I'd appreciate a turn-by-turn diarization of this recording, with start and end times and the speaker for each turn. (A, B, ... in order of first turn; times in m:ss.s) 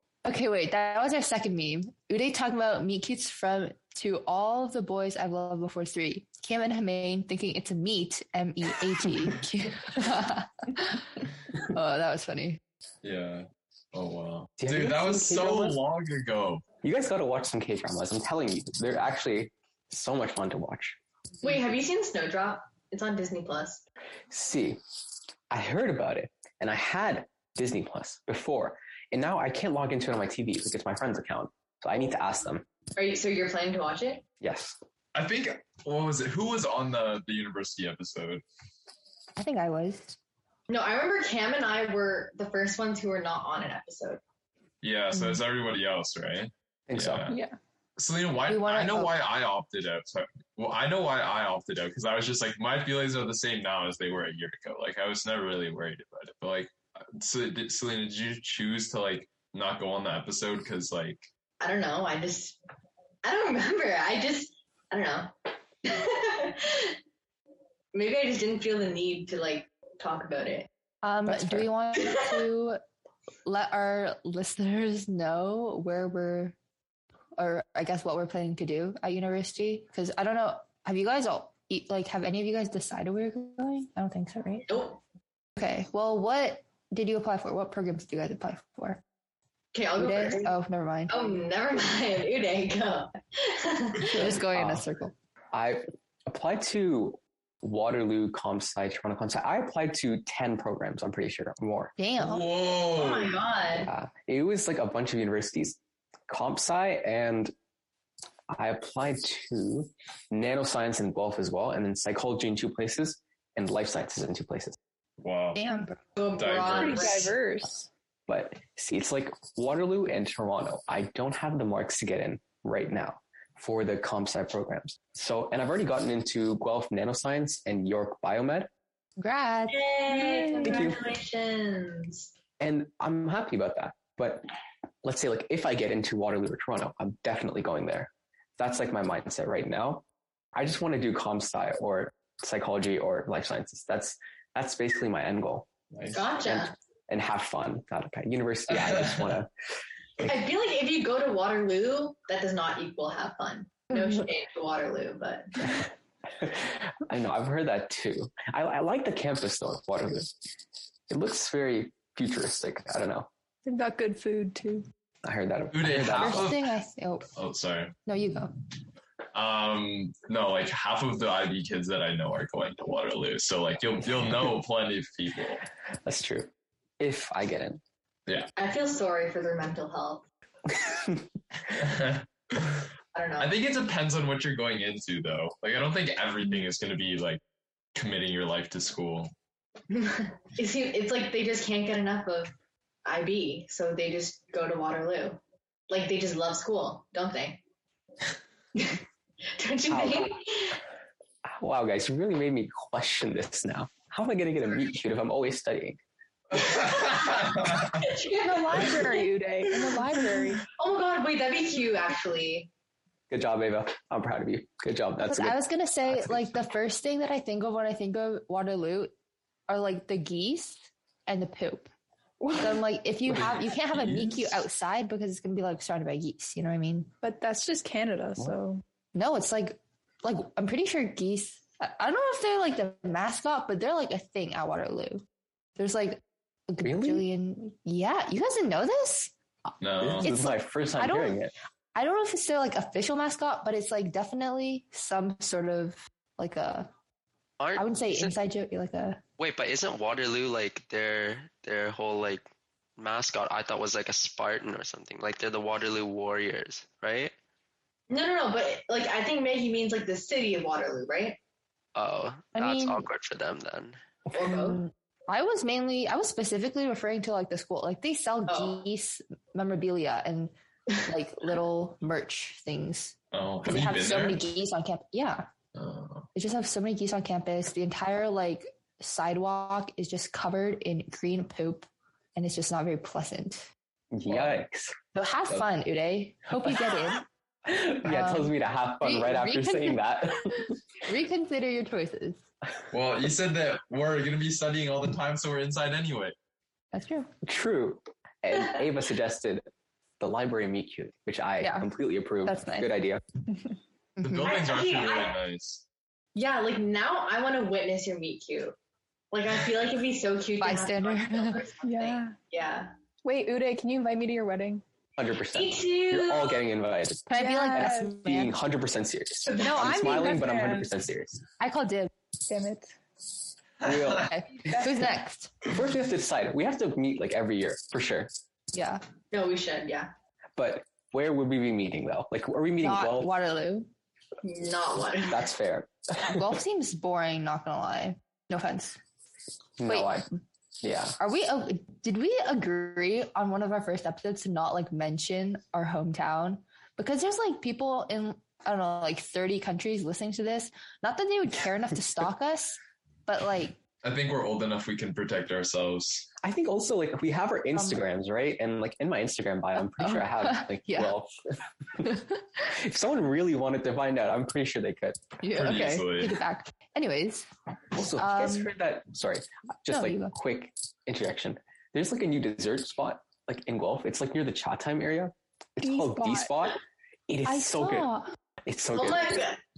0:00.2-0:12.6 A
0:13.0-0:16.6 B
0:14.6-0:15.8 C
0:16.8-0:21.0 C
0:21.4-0:23.8 D
0:24.3-0:24.8 C
0:25.5-0:32.7 C
0:33.0-0:34.2 D
0:34.4-0:34.8 C
0:35.2-0:38.4 B
0:39.4-0:40.2 A
0:40.7-0:44.2 D
0:44.8-0:47.4 B
0:46.9-0:47.3 C
0:47.3-0:47.6 E
0:48.0-1:01.3 B
0:48.5-0:49.2 A
1:01.6-1:02.6 D
1:03.2-1:07.0 D
1:07.9-1:10.7 D
1:11.0-1:12.8 A
1:12.0-1:12.4 D
1:13.5-1:16.6 A
1:17.4-1:24.7 A
1:24.7-1:25.0 D
1:25.6-1:29.0 A
1:29.7-1:30.5 D
1:30.0-1:31.2 A
1:31.1-1:34.4 D
1:34.1-1:35.1 A
1:34.5-1:34.8 C
1:35.5-1:42.0 C
1:42.0-1:42.5 A
1:42.2-1:43.4 B
1:42.8-1:43.9 D
1:43.8-1:47.5 C
1:48.5-1:54.8 C
1:55.2-1:55.6 B
1:55.6-1:56.0 A
1:56.2-1:57.4 D
1:56.4-1:57.2 B
1:56.7-1:57.9 E
1:58.3-2:08.7 C
2:09.2-2:10.6 A
2:09.7-2:12.3 D
2:10.2-2:10.6 E
2:10.6-2:11.0 C
2:12.6-2:14.5 C
2:15.0-2:25.7 C
2:25.9-2:26.3 B
2:26.1-2:26.7 D
2:26.4-2:29.5 C
2:28.7-2:29.3 B
2:30.2-2:35.7 D
2:36.3-2:40.3 C
2:41.1-2:43.3 C
2:43.6-2:44.9 E
2:45.2-2:46.5 C
2:45.7-2:46.7 B
2:46.2-2:47.3 A
2:47.3-2:47.9 B
2:48.1-2:48.5 A
2:49.3-2:55.6 B
2:56.0-2:57.8 C
2:58.6-3:00.2 D
3:00.7-3:01.3 C
3:01.7-3:07.4 B
3:03.1-3:03.6 D
3:07.9-3:09.3 B
3:09.9-3:12.5 D
3:13.0-3:17.6 D
3:18.8-3:19.0 D
3:19.6-3:20.8 D
3:19.9-3:20.4 C
3:21.4-3:26.0 C
3:26.5-3:28.0 B
3:26.6-3:29.2 D
3:28.3-3:30.6 E
3:29.8-3:30.0 D
3:30.6-3:32.7 D
3:33.3-3:36.6 C
3:35.2-3:39.1 A
3:39.7-3:41.9 A
3:42.4-3:42.8 E
3:42.6-3:47.1 A
3:43.3-3:44.6 B
3:47.2-3:48.8 E
3:49.1-3:55.2 A
3:55.8-3:59.3 A
3:56.8-3:57.3 C
3:59.8-4:00.3 B
4:00.0-4:01.5 C
4:00.2-4:01.4 A
4:02.0-4:06.9 A
4:07.6-4:08.4 F
4:07.8-4:09.2 A
4:09.4-4:12.4 F
4:13.0-4:17.3 F
4:18.1-4:21.4 D
4:22.0-4:24.0 F
4:22.6-4:23.0 A
4:24.3-4:24.8 D
4:24.4-4:30.5 A
4:28.5-4:28.8 D
4:31.0-4:35.5 A
4:33.3-4:34.4 B
4:35.7-4:36.3 B
4:36.4-4:43.7 A
4:44.1-4:44.9 C
4:45.2-4:47.3 A
4:47.7-4:50.7 C
4:48.0-4:50.0 A
4:51.1-4:52.4 A
4:52.9-4:56.4 B
4:56.9-4:57.3 A
4:57.4-4:59.7 C
5:00.2-5:03.2 C
5:01.6-5:01.9 A
5:02.4-5:02.9 A
5:04.2-5:04.5 A
5:04.2-5:05.8 B
5:04.4-5:05.4 D
5:06.4-5:08.8 D
5:09.3-5:12.9 D
5:10.6-5:11.6 A
5:11.8-5:12.4 E
5:13.2-5:14.8 E
5:15.2-5:21.4 C
5:15.5-5:16.7 D
5:17.3-5:18.5 A
5:17.3-5:18.2 E
5:19.5-5:19.7 D
5:19.6-5:20.9 E
5:21.6-5:22.1 A
5:22.5-5:23.0 E
5:23.8-5:24.8 C
5:24.3-5:25.6 A
5:25.7-5:28.3 C
5:28.7-5:29.0 A
5:29.3-5:30.1 D
5:30.6-5:33.4 C
5:32.8-5:33.9 A
5:34.4-5:35.5 D
5:35.3-5:36.6 C
5:36.2-5:39.0 A
5:39.8-5:40.3 C
5:39.9-5:40.2 A
5:40.8-5:41.2 C
5:41.2-5:53.8 A
5:54.0-5:56.3 B
5:56.4-6:01.4 C
5:57.7-5:58.0 A
5:59.8-6:01.2 A
6:02.7-6:05.2 C
6:05.4-6:07.5 A
6:05.5-6:06.4 B
6:07.9-6:18.1 C
6:08.2-6:08.7 A
6:09.9-6:10.3 A
6:15.8-6:16.5 E
6:17.5-6:18.4 A
6:18.6-6:19.5 C
6:18.9-6:19.6 D